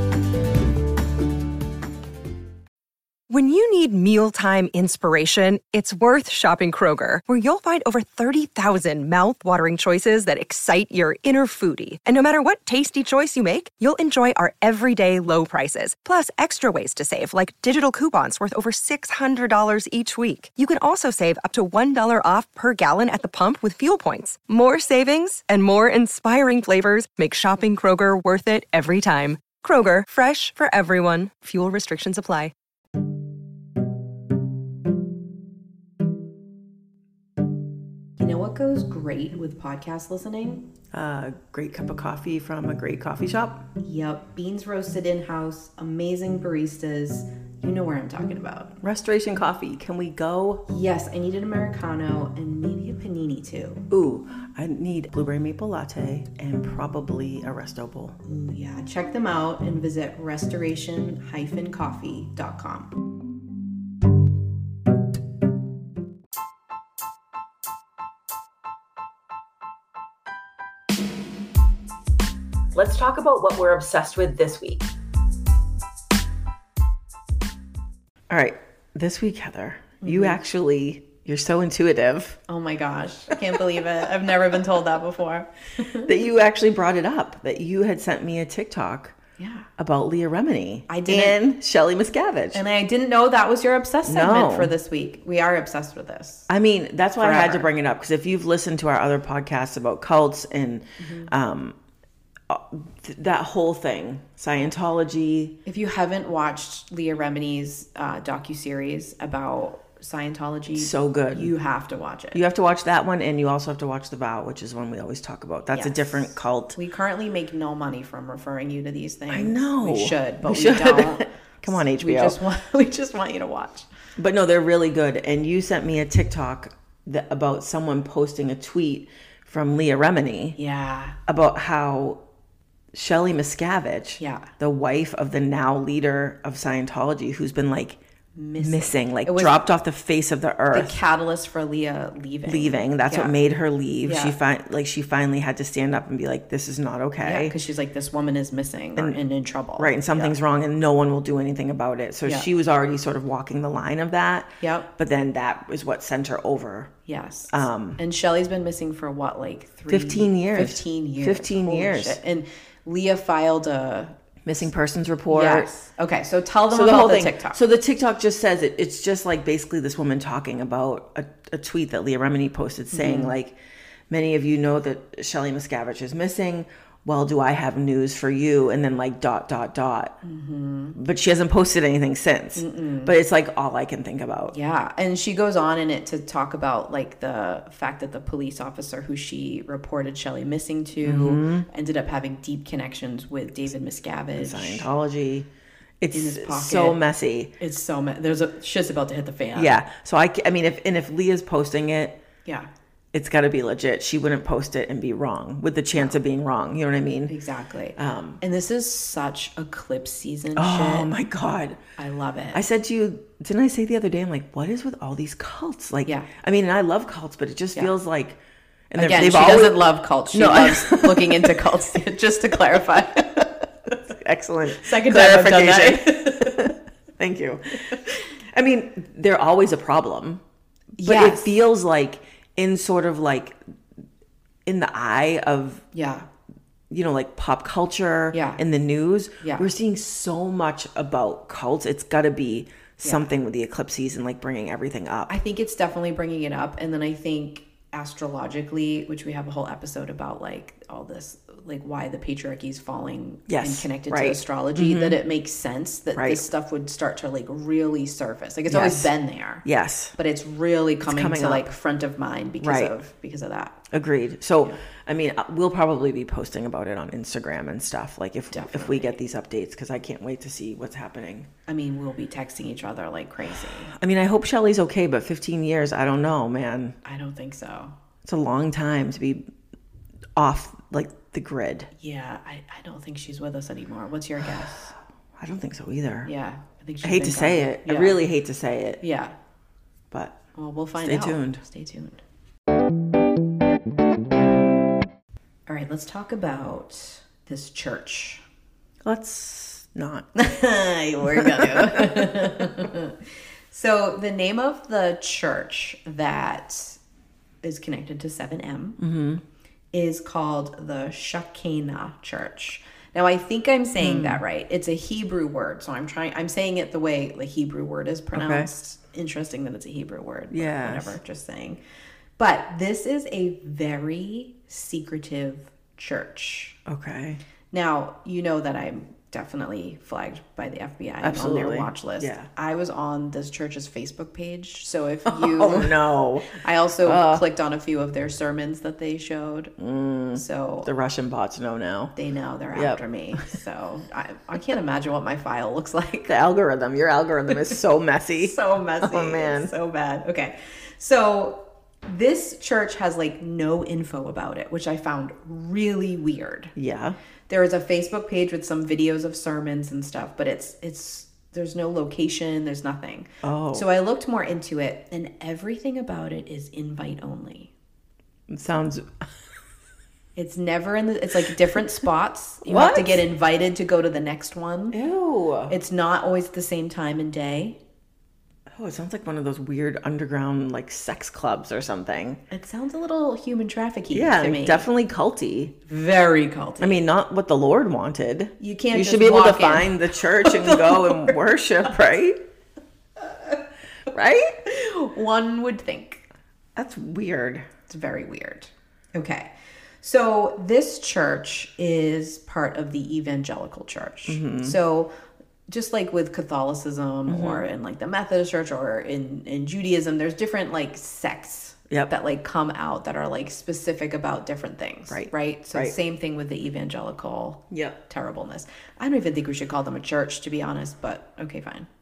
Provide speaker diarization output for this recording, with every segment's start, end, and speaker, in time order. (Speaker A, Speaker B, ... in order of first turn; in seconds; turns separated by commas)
Speaker A: 3.3-32.5, Speaker B: 38.2-40.7, Speaker C: 40.9-43.6, Speaker B: 43.8-48.8, Speaker C: 48.8-50.6, Speaker B: 50.7-53.9, Speaker C: 53.9-58.2, Speaker B: 58.2-63.0, Speaker C: 72.7-74.9, Speaker C: 78.3-82.4, Speaker B: 80.0-80.4, Speaker B: 82.5-86.1, Speaker C: 83.3-83.8, Speaker C: 86.0-89.2, Speaker B: 89.4-89.7, Speaker C: 89.8-92.6, Speaker B: 90.9-91.4, Speaker B: 92.5-96.5, Speaker C: 94.1-94.8, Speaker C: 96.5-101.8, Speaker B: 97.2-97.7, Speaker B: 101.0-101.3, Speaker C: 102.5-105.5, Speaker B: 105.7-112.4, Speaker C: 110.8-111.5, Speaker C: 112.3-116.8, Speaker B: 115.7-123.9, Speaker C: 119.3-122.4, Speaker C: 124.2-130.6, Speaker B: 130.6-131.2, Speaker C: 131.3-132.2, Speaker C: 132.9-138.0, Speaker B: 134.2-134.5, Speaker B: 138.3-139.6, Speaker C: 138.6-141.0, Speaker B: 140.7-143.3, Speaker C: 142.5-147.5, Speaker B: 144.0-144.4, Speaker B: 147.2-150.4, Speaker C: 149.8-156.9, Speaker B: 154.6-154.9, Speaker B: 157.1-164.2, Speaker C: 157.5-158.0, Speaker C: 159.9-162.2, Speaker C: 164.4-165.7, Speaker B: 165.3-167.6, Speaker C: 166.7-173.6, Speaker B: 172.9-173.3, Speaker C: 174.1-180.2, Speaker B: 180.2-181.0, Speaker C: 181.0-184.6, Speaker B: 182.6-183.1, Speaker B: 184.5-194.9, Speaker C: 191.0-191.7, Speaker C: 194.4-195.5, Speaker C: 196.0-197.5, Speaker B: 196.1-197.0, Speaker B: 197.6-199.8, Speaker C: 199.5-202.2, Speaker C: 203.1-207.4, Speaker B: 205.9-206.2, Speaker B: 207.3-211.1, Speaker C: 208.0-208.4, Speaker C: 210.6-211.8, Speaker B: 212.0-212.6, Speaker C: 212.5-218.4, Speaker C: 218.9-221.7, Speaker B: 219.0-223.9, Speaker C: 223.2-223.5, Speaker C: 224.1-230.4, Speaker B: 224.7-226.7, Speaker B: 231.0-231.5, Speaker C: 231.0-233.6, Speaker C: 234.7-235.8, Speaker B: 235.9-236.3, Speaker C: 236.9-245.3, Speaker B: 238.3-238.6, Speaker B: 239.4-239.7, Speaker B: 245.3-259.6, Speaker C: 253.5-255.2, Speaker C: 256.1-256.4, Speaker C: 258.7-259.1, Speaker C: 259.6-260.1, Speaker B: 260.2-263.8, Speaker C: 261.0-261.7, Speaker C: 262.6-262.9, Speaker C: 263.9-271.5, Speaker B: 268.5-269.2, Speaker B: 271.7-273.9, Speaker C: 273.9-277.0, Speaker B: 277.0-277.9, Speaker C: 278.2-279.5, Speaker C: 280.4-281.9, Speaker B: 282.0-284.9, Speaker C: 285.4-286.3, Speaker B: 286.2-288.2, Speaker C: 287.0-289.0, Speaker B: 289.0-289.4, Speaker C: 290.1-290.4, Speaker B: 290.6-292.2, Speaker C: 291.0-291.6, Speaker B: 295.7-298.4, Speaker C: 299.0-300.3, Speaker B: 300.4-303.2, Speaker C: 301.3-302.9, Speaker B: 303.7-307.0, Speaker B: 307.6-309.0, Speaker C: 309.0-309.4, Speaker B: 309.9-321.8, Speaker C: 314.0-314.4, Speaker C: 318.3-318.7, Speaker C: 320.5-321.2, Speaker B: 322.4-326.8, Speaker C: 326.9-327.4, Speaker B: 327.7-339.7, Speaker C: 331.2-332.5, Speaker C: 335.3-337.4, Speaker C: 339.8-342.1, Speaker B: 340.3-340.9, Speaker B: 342.2-346.3, Speaker C: 342.7-343.0, Speaker C: 346.3-349.7, Speaker B: 348.4-356.7, Speaker C: 356.8-357.2, Speaker B: 357.5-367.7, Speaker C: 363.4-363.9, Speaker C: 368.5-369.1, Speaker B: 370.4-375.0, Speaker C: 372.6-373.2, Speaker C: 374.9-375.7, Speaker B: 375.7-377.8, Speaker C: 378.7-382.4, Speaker B: 382.5-384.9, Speaker C: 384.1-385.8, Speaker B: 385.9-387.0, Speaker C: 386.8-392.4, Speaker B: 388.6-391.4, Speaker C: 394.1-394.6, Speaker B: 394.7-396.2, Speaker C: 396.8-397.7, Speaker B: 397.9-399.5, Speaker B: 400.0-405.1, Speaker C: 404.3-404.8, Speaker B: 405.7-421.9, Speaker C: 407.3-407.6, Speaker C: 415.1-415.9, Speaker C: 417.7-418.0